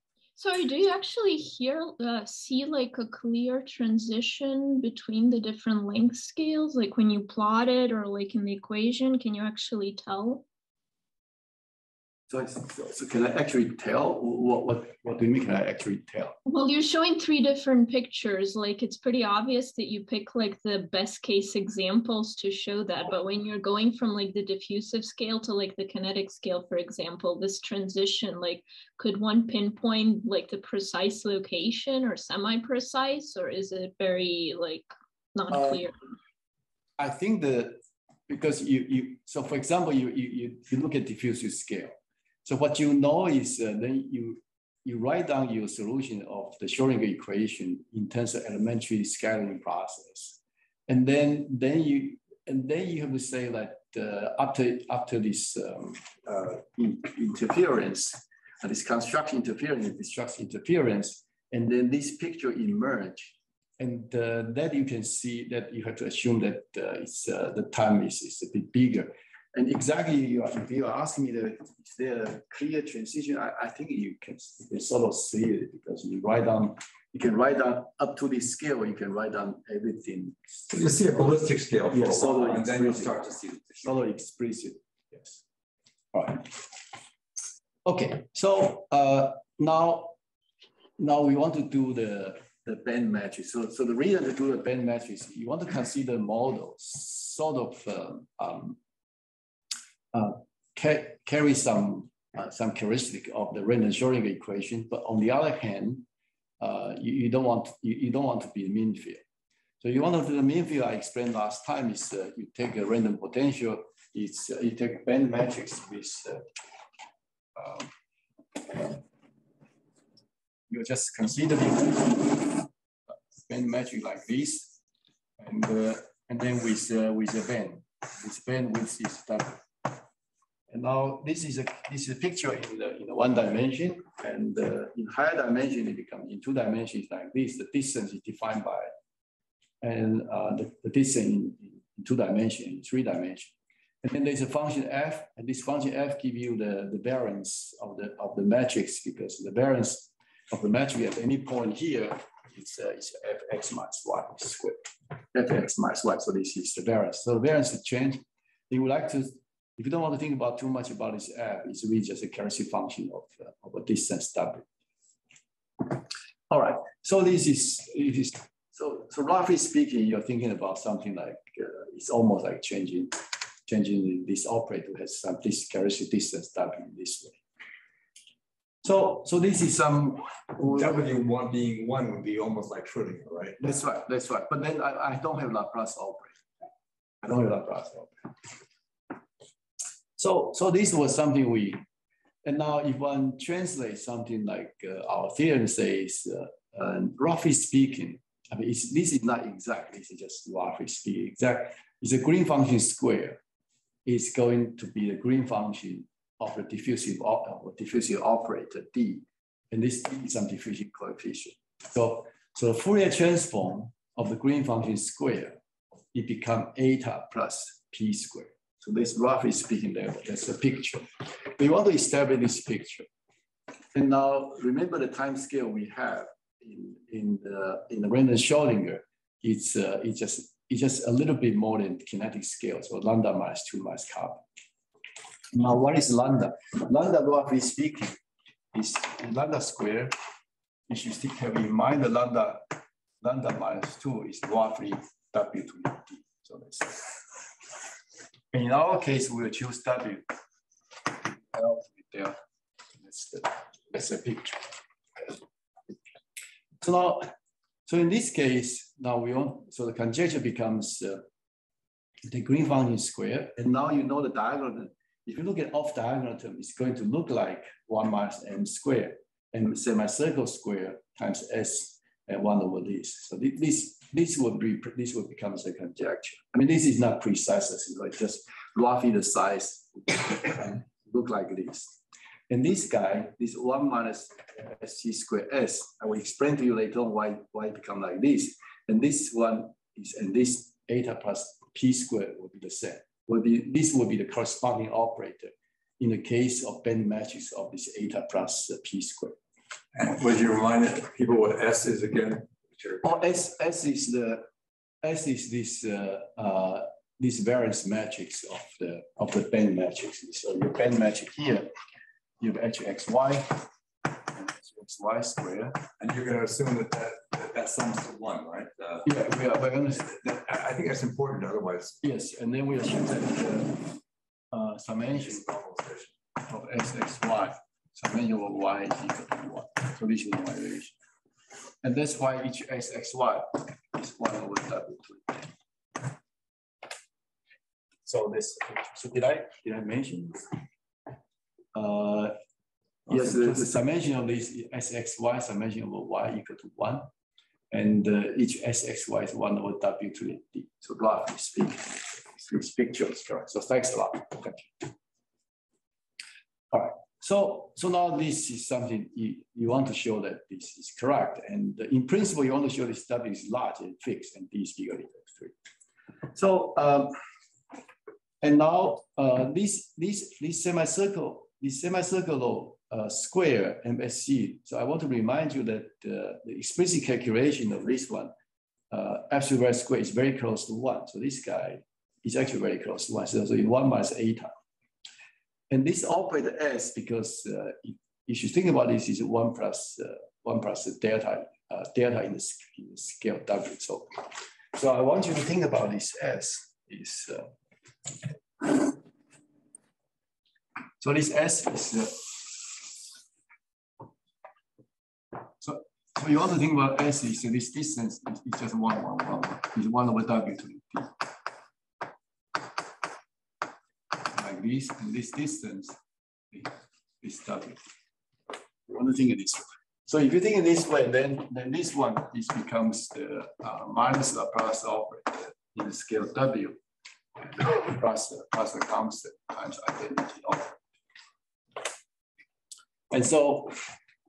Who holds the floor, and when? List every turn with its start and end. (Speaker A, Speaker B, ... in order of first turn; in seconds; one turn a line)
Speaker A: 0.4-10.4
Speaker B: 12.3-16.4
Speaker A: 16.5-35.9
Speaker B: 35.5-35.9
Speaker B: 37.0-80.7
Speaker C: 80.7-84.0
Speaker B: 81.9-83.3
Speaker B: 83.8-85.4
Speaker B: 86.1-86.7
Speaker B: 87.8-90.2
Speaker B: 91.0-98.8
Speaker B: 100.1-106.1
Speaker B: 106.6-109.2
Speaker B: 109.8-116.5
Speaker B: 117.6-117.9
Speaker B: 118.6-119.0
Speaker B: 120.7-124.8
Speaker B: 125.4-130.0
Speaker B: 130.7-138.9
Speaker B: 139.8-164.7
Speaker B: 165.8-177.4
Speaker B: 178.8-180.9
Speaker C: 180.7-183.6
Speaker B: 183.6-186.5
Speaker B: 187.2-188.5
Speaker B: 190.2-191.8
Speaker B: 192.4-203.4
Speaker B: 204.1-215.6
Speaker B: 216.1-223.1
Speaker B: 223.9-234.4
Speaker B: 235.5-238.2
Speaker B: 238.7-240.1
Speaker B: 240.9-247.5
Speaker B: 248.5-250.3
Speaker B: 251.1-252.4
Speaker B: 253.0-255.4
Speaker B: 256.8-257.3
Speaker B: 257.9-261.2
Speaker B: 262.2-281.9
Speaker B: 282.5-299.4
Speaker C: 299.9-303.1
Speaker B: 303.0-304.4
Speaker B: 305.0-311.7
Speaker B: 312.4-315.8
Speaker C: 316.0-319.1
Speaker B: 319.0-320.1
Speaker C: 320.0-322.0
Speaker B: 322.0-324.0
Speaker B: 324.5-325.4
Speaker C: 325.2-326.1
Speaker B: 326.4-331.0
Speaker B: 331.8-336.1
Speaker B: 338.1-340.6
Speaker B: 341.8-342.4
Speaker C: 343.1-343.7
Speaker B: 343.1-347.1
Speaker B: 347.7-354.9
Speaker B: 356.7-365.5
Speaker B: 366.3-367.2
Speaker B: 368.4-378.3
Speaker B: 378.9-384.5
Speaker B: 385.7-397.5
Speaker B: 398.2-399.0
Speaker B: 401.0-402.9
Speaker B: 405.6-411.3
Speaker B: 414.1-415.9
Speaker B: 416.5-417.8
Speaker B: 418.9-426.8
Speaker B: 427.4-430.8
Speaker B: 433.1-433.9